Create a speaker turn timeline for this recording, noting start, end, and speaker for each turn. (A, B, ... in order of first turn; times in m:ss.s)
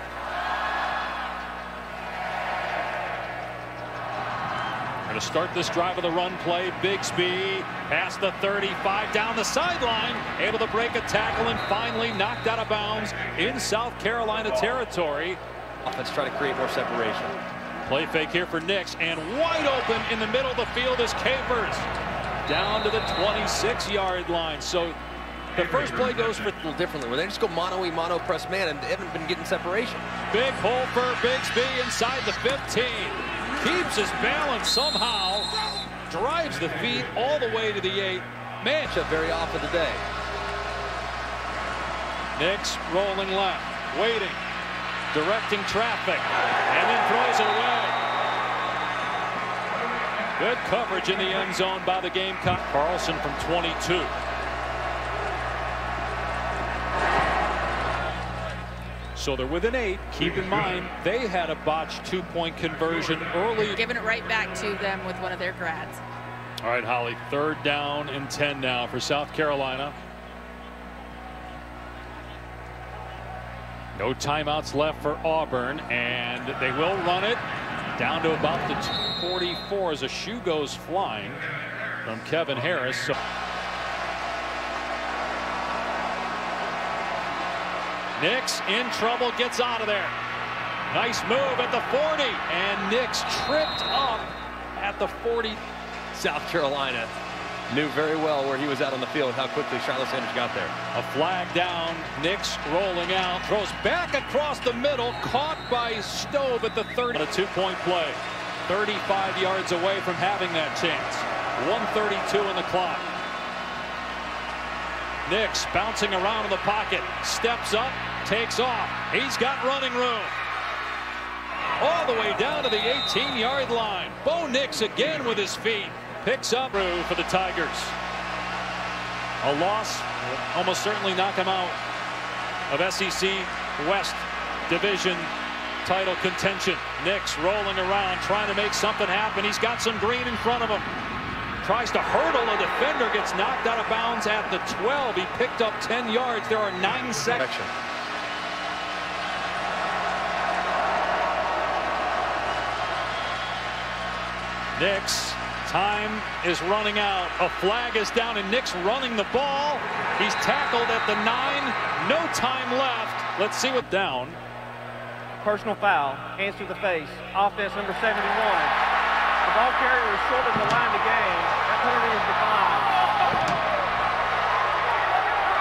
0:05.0-0:15.4 A
0:15.8-0:17.4 B
0:17.8-0:21.9 A
0:22.4-0:25.0 A
0:25.5-0:26.5 A
0:25.9-0:30.0 B
0:30.3-0:38.9 A
0:38.8-0:40.0 B
0:42.3-0:44.4 A
0:45.1-0:48.0 A
0:50.4-0:54.1 A
0:59.1-1:03.8 A
1:03.7-1:06.0 C
1:06.6-1:10.0 A
1:14.0-1:17.4 A
1:17.9-1:21.4 A
1:22.0-1:23.2 A
1:28.2-1:30.1 A
1:30.9-1:35.6 A
1:36.1-1:37.1 B
1:37.7-1:40.7 B
1:40.9-1:53.1 A
1:55.2-2:00.4 A
2:01.8-2:08.0 A
2:09.4-2:11.8 A
2:12.7-2:15.3 A
2:15.8-2:20.9 A
2:21.6-2:27.4 A
2:27.2-2:27.7 B
2:34.7-2:44.4 A
2:45.4-2:48.8 D
2:49.4-2:53.0 D